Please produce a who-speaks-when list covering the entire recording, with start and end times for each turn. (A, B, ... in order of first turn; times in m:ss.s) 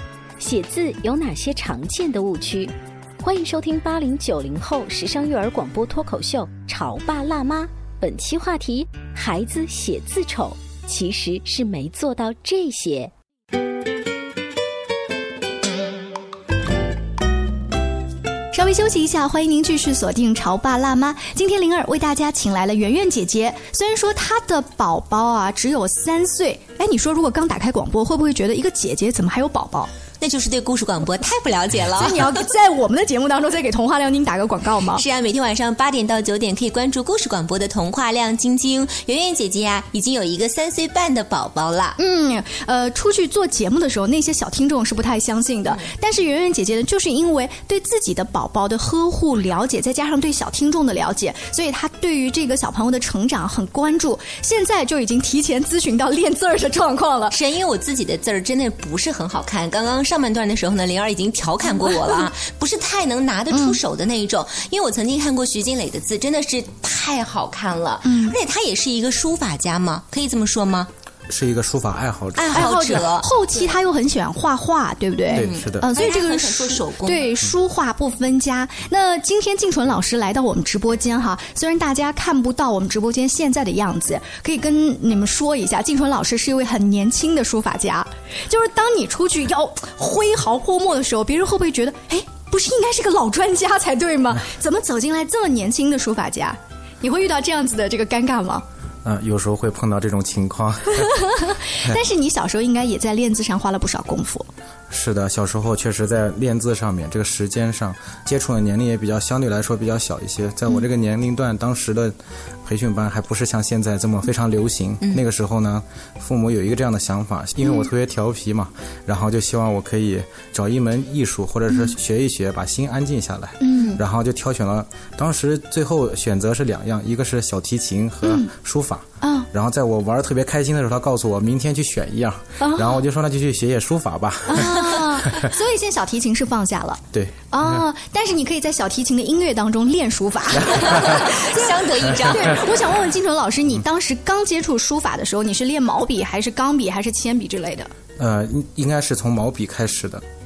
0:00.4-0:13.1 A
0:18.5-0:29.9 B
0:30.2-0:32.4 C
0:31.9-0:35.0 B
0:34.9-0:42.0 C
0:42.0-0:57.4 B
0:57.3-1:10.9 C
1:01.8-1:02.3 B
1:03.5-1:03.8 B
1:08.0-1:08.3 B
1:11.3-1:13.0 D
1:12.4-1:13.7 C
1:12.5-1:38.6 B
1:15.3-1:17.3 C
1:15.3-1:15.9 D
1:39.0-1:41.1 D
1:41.0-1:44.5 B
1:44.9-2:15.5 D
2:03.6-2:04.0 B
2:09.2-2:09.5 B
2:12.6-2:13.0 B
2:14.5-2:27.9 B
2:17.1-2:17.4 D
2:20.6-2:21.2 D
2:20.7-2:22.7 C
2:28.2-2:30.2 D